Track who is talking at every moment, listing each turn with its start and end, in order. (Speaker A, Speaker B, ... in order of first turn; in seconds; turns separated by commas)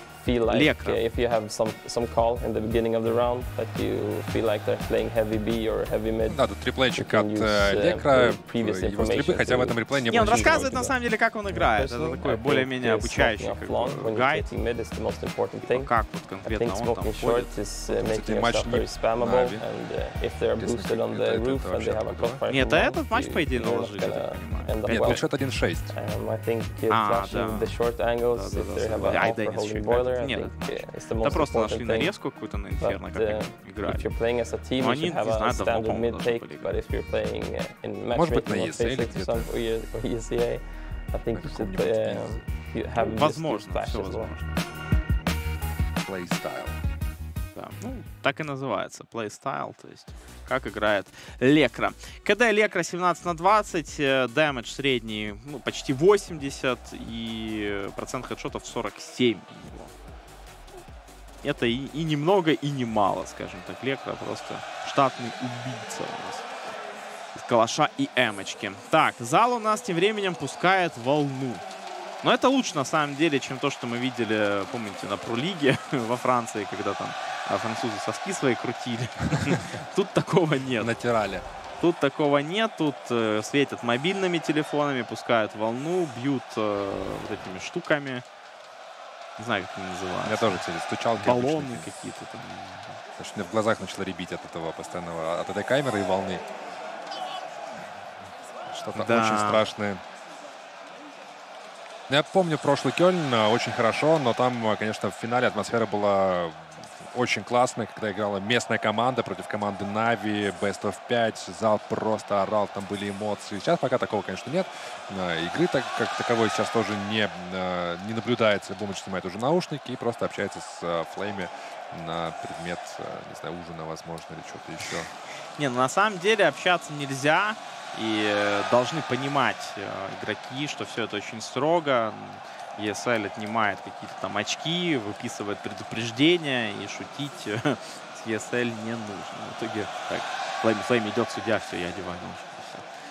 Speaker A: 0.2-6.4, Speaker B: 0.5-1.0, Speaker C: 6.3-10.9, Speaker A: 6.9-25.3, Speaker B: 10.1-14.5, Speaker B: 15.6-17.5, Speaker C: 17.9-19.6, Speaker C: 20.6-22.4, Speaker B: 22.5-25.2, Speaker C: 24.9-25.9, Speaker A: 25.9-32.1, Speaker B: 26.9-34.1, Speaker A: 32.8-44.3, Speaker B: 34.8-36.8, Speaker C: 38.1-39.5, Speaker C: 41.3-42.4, Speaker B: 43.0-44.6, Speaker C: 46.0-46.8, Speaker B: 47.5-59.9, Speaker B: 61.4-66.5, Speaker B: 67.3-71.6, Speaker B: 72.2-80.9, Speaker C: 80.8-81.5, Speaker B: 81.8-88.2, Speaker B: 89.4-90.6, Speaker C: 90.2-91.9, Speaker B: 91.2-92.9, Speaker C: 93.2-96.4, Speaker C: 98.7-100.0, Speaker B: 99.0-99.6, Speaker C: 102.1-125.1, Speaker B: 125.6-142.8